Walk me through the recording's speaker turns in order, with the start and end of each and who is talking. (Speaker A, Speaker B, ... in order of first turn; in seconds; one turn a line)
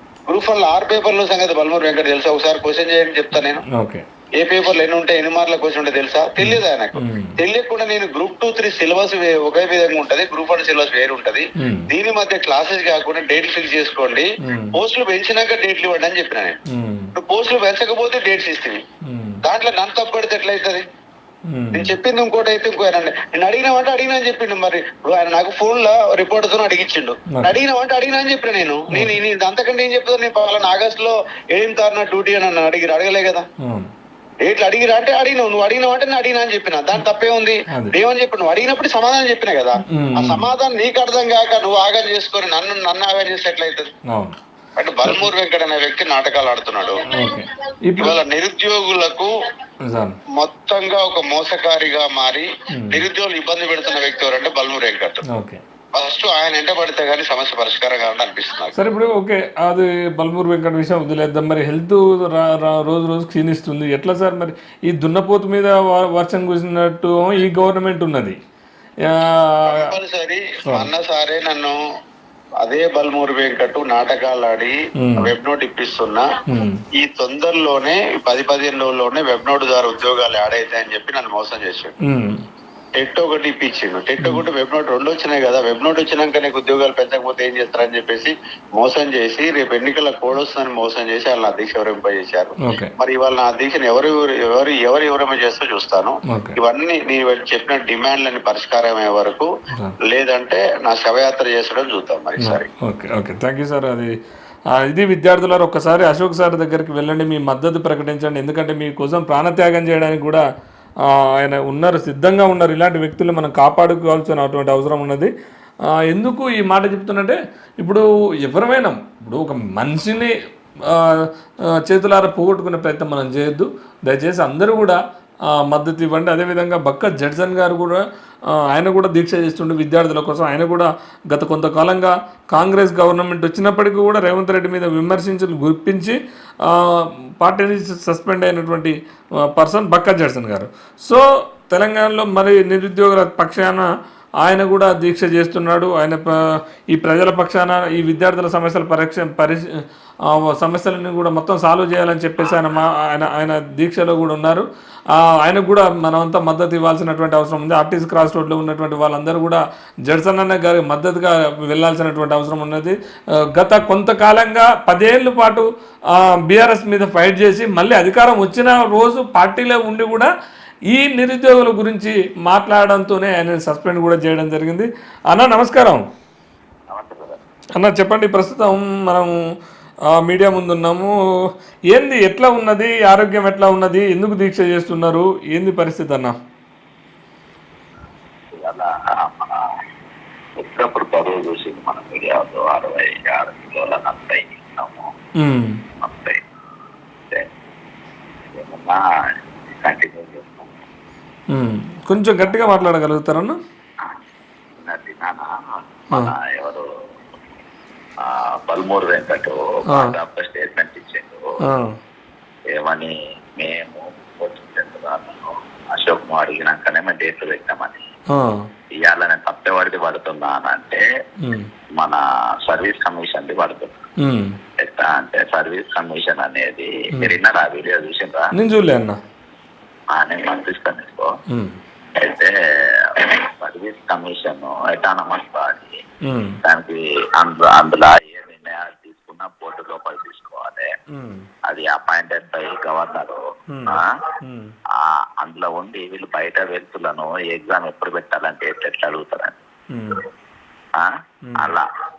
Speaker A: 0.3-3.6
Speaker B: 3.7-4.1
Speaker A: 4.4-16.6
Speaker B: 6.4-7.4
Speaker B: 11.6-11.9
Speaker B: 14.4-14.7
Speaker B: 16.7-17.1
Speaker A: 17.1-18.8
Speaker B: 19.1-19.4
Speaker A: 19.4-20.9
Speaker B: 21.5-21.9
Speaker A: 21.7-33.5
Speaker B: 27.3-27.6
Speaker B: 33.6-33.9
Speaker A: 34.4-43.9
Speaker B: 39.9-40.5
Speaker B: 44.1-44.4
Speaker A: 44.8-47.1
Speaker B: 47.1-48.2
Speaker A: 48.0-49.3
Speaker B: 49.9-50.2
Speaker A: 50.4-55.2
Speaker B: 52.7-53.0
Speaker B: 55.3-55.6
Speaker A: 56.0-58.8
Speaker B: 58.8-68.4
Speaker B: 69.1-70.0
Speaker A: 69.7-71.8
Speaker A: 72.6-76.3
Speaker B: 75.0-75.3
Speaker B: 76.5-76.8
Speaker A: 77.0-81.9
Speaker B: 82.0-82.5
Speaker A: 83.0-99.5
Speaker B: 92.6-92.9
Speaker B: 96.3-96.6
Speaker A: 100.1-102.7
Speaker B: 102.4-104.1
Speaker B: 104.7-110.5
Speaker B: 111.0-115.3
Speaker B: 116.1-120.3
Speaker B: 120.9-121.3
Speaker B: 121.8-125.0
Speaker B: 125.5-139.0
Speaker B: 139.5-143.9
Speaker B: 144.4-163.0
Speaker B: 163.6-170.3
Speaker B: 170.9-176.0
Speaker C: 176.9-177.4
Speaker B: 177.8-179.3
Speaker B: 180.1-181.2
Speaker B: 181.9-186.4
Speaker C: 188.5-189.7
Speaker C: 190.6-195.1
Speaker B: 195.4-195.8
Speaker C: 196.0-196.4
Speaker C: 198.5-199.0
Speaker C: 199.8-200.8
Speaker B: 201.5-203.6
Speaker C: 202.5-202.8
Speaker C: 204.8-206.9
Speaker C: 208.2-211.5
Speaker B: 209.9-210.2
Speaker B: 211.6-212.0
Speaker C: 212.7-218.0
Speaker B: 218.3-218.7
Speaker C: 219.0-221.0
Speaker B: 221.4-221.7
Speaker C: 222.0-224.0
Speaker B: 224.2-224.6
Speaker C: 224.8-228.5
Speaker B: 228.5-229.2
Speaker C: 230.1-231.4
Speaker B: 231.5-231.8
Speaker C: 232.2-236.0
Speaker B: 236.2-236.6
Speaker C: 236.7-240.9
Speaker B: 241.1-241.5
Speaker C: 241.7-244.1
Speaker B: 243.7-244.8
Speaker C: 245.0-249.6
Speaker B: 249.9-250.2
Speaker C: 251.0-251.9
Speaker B: 251.4-251.8